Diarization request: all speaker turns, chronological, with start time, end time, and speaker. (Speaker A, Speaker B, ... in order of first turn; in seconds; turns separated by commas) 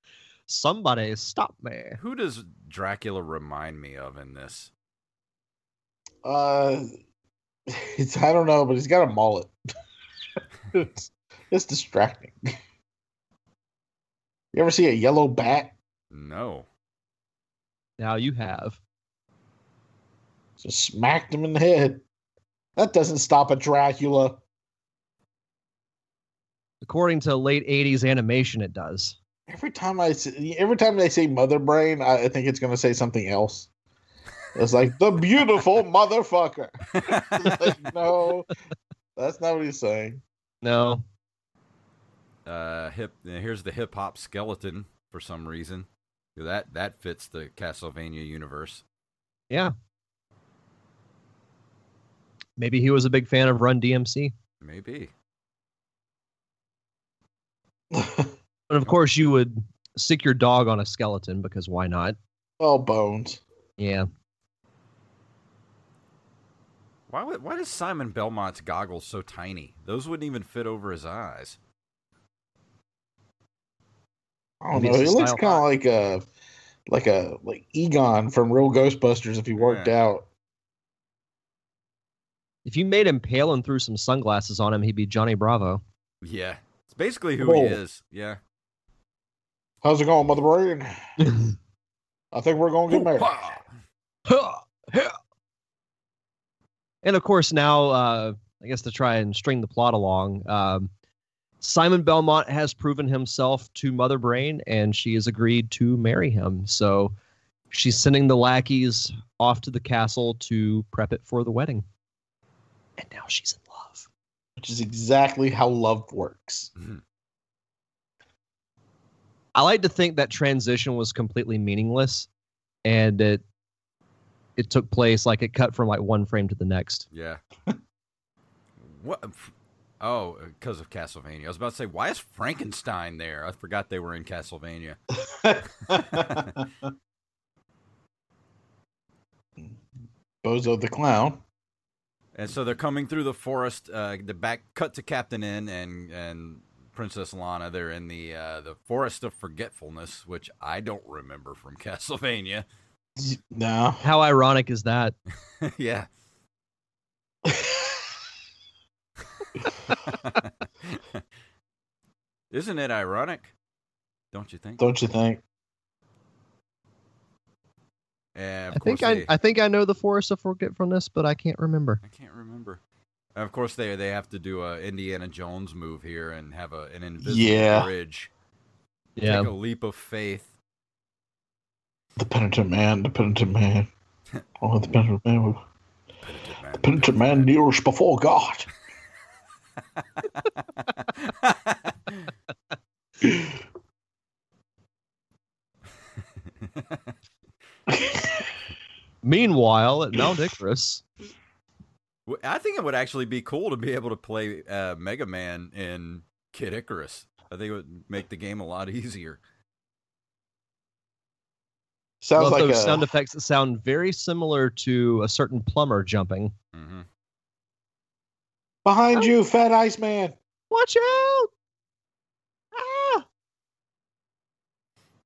Speaker A: 0.5-2.0, Speaker B: 2.0-4.7, Speaker C: 6.2-6.9, Speaker C: 7.7-9.5, Speaker C: 10.7-12.4, Speaker C: 14.5-15.8, Speaker B: 16.1-16.7, Speaker A: 18.0-18.8, Speaker C: 20.6-22.0, Speaker C: 22.8-24.4, Speaker A: 26.8-29.2, Speaker C: 29.5-33.7, Speaker C: 34.5-38.5, Speaker B: 36.9-37.7, Speaker C: 39.2-40.2, Speaker A: 40.6-41.0, Speaker B: 42.5-48.8, Speaker A: 52.6-54.3, Speaker B: 54.6-55.1, Speaker C: 57.9-58.3, Speaker A: 58.7-62.2, Speaker C: 62.6-63.4, Speaker A: 63.8-64.1, Speaker B: 67.1-71.6, Speaker C: 74.6-76.3, Speaker A: 74.7-75.6, Speaker C: 76.9-80.3, Speaker B: 79.6-79.9, Speaker A: 82.7-85.8, Speaker B: 86.2-88.4, Speaker C: 87.4-87.8, Speaker C: 89.8-91.0, Speaker A: 91.2-91.5, Speaker C: 92.3-93.5, Speaker B: 92.9-93.7, Speaker A: 94.3-95.1, Speaker A: 97.0-100.9, Speaker A: 101.6-107.1, Speaker A: 107.7-111.8, Speaker A: 113.0-114.1, Speaker C: 114.6-116.7, Speaker B: 116.8-117.0, Speaker A: 119.5-122.3, Speaker A: 122.8-123.4, Speaker A: 124.6-127.1, Speaker B: 127.1-127.4, Speaker B: 128.8-135.0, Speaker C: 135.2-136.7, Speaker B: 135.9-136.5, Speaker C: 140.4-141.4, Speaker B: 142.3-152.7, Speaker C: 153.2-154.0, Speaker A: 154.0-155.2, Speaker B: 155.6-156.1, Speaker C: 157.4-158.0, Speaker B: 160.1-161.2, Speaker B: 162.5-163.5, Speaker B: 164.3-164.9, Speaker C: 164.8-165.4, Speaker B: 168.3-169.3, Speaker A: 168.7-172.0, Speaker B: 172.0-172.8, Speaker B: 173.4-178.3, Speaker C: 177.2-177.9, Speaker A: 179.2-179.5, Speaker B: 179.2-180.5, Speaker C: 182.2-183.9, Speaker C: 184.6-185.6, Speaker B: 186.2-187.5, Speaker C: 186.8-188.7, Speaker B: 190.2-192.3, Speaker C: 193.2-193.6, Speaker B: 196.6-197.0, Speaker C: 197.9-198.5, Speaker A: 199.2-201.0, Speaker B: 202.3-209.4, Speaker C: 212.2-213.1, Speaker A: 212.4-216.5, Speaker B: 216.7-217.1, Speaker C: 218.8-220.4, Speaker A: 220.7-221.5, Speaker A: 222.7-223.2